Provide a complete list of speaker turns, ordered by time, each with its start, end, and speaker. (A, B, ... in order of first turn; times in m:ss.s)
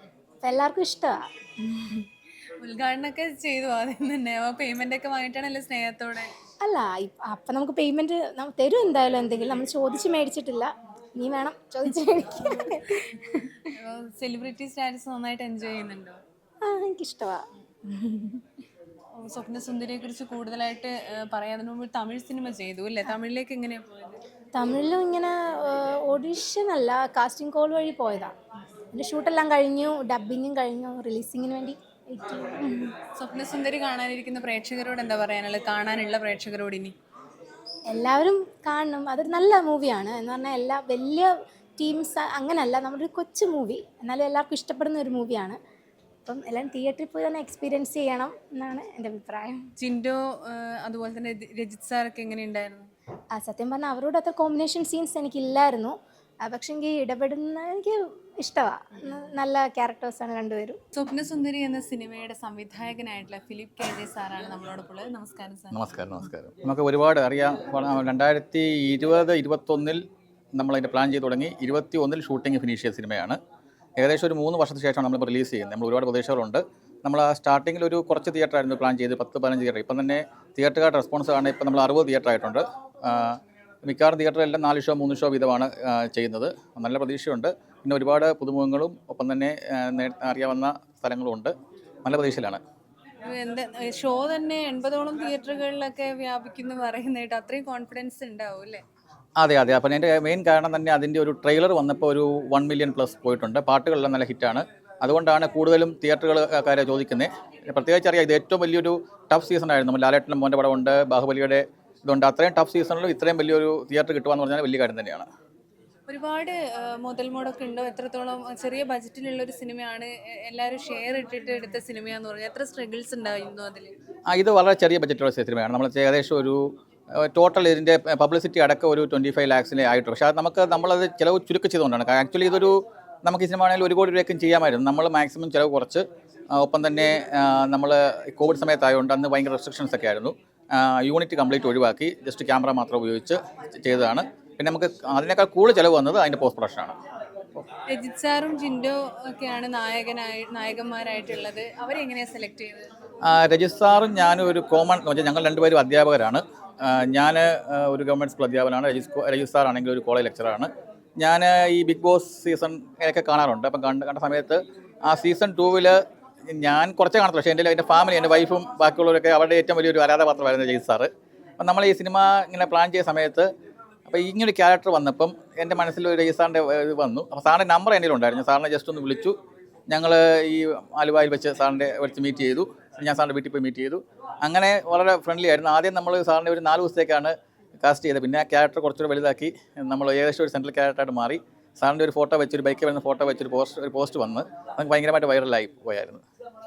0:00.4-0:02.1 A
0:02.6-0:06.3 B
0:06.6-0:13.5 A
0:13.7-0:16.2 B
0:16.6-0:18.4 A
0:19.2-0:24.2 B
0:24.6-0:28.3 A
0:28.9-0:32.9 A
0:33.2-0:37.0 B
0:37.9-0:45.6 A
0:46.3-0:49.6 A
0:49.8-0:52.9 B
0:53.4-1:00.8 A
1:00.9-1:05.9 B
1:05.7-1:10.0 C
1:10.6-1:13.4 C
1:14.0-1:31.5 C
1:32.0-1:32.6 C
1:33.2-1:38.8 B
1:39.4-1:55.3 C
1:56.1-2:03.9 B
2:04.3-2:06.6 C
2:07.2-2:27.0 C
2:27.9-2:32.9 B
2:33.2-2:53.5 C
2:54.1-2:59.4 C
2:59.9-3:16.2 C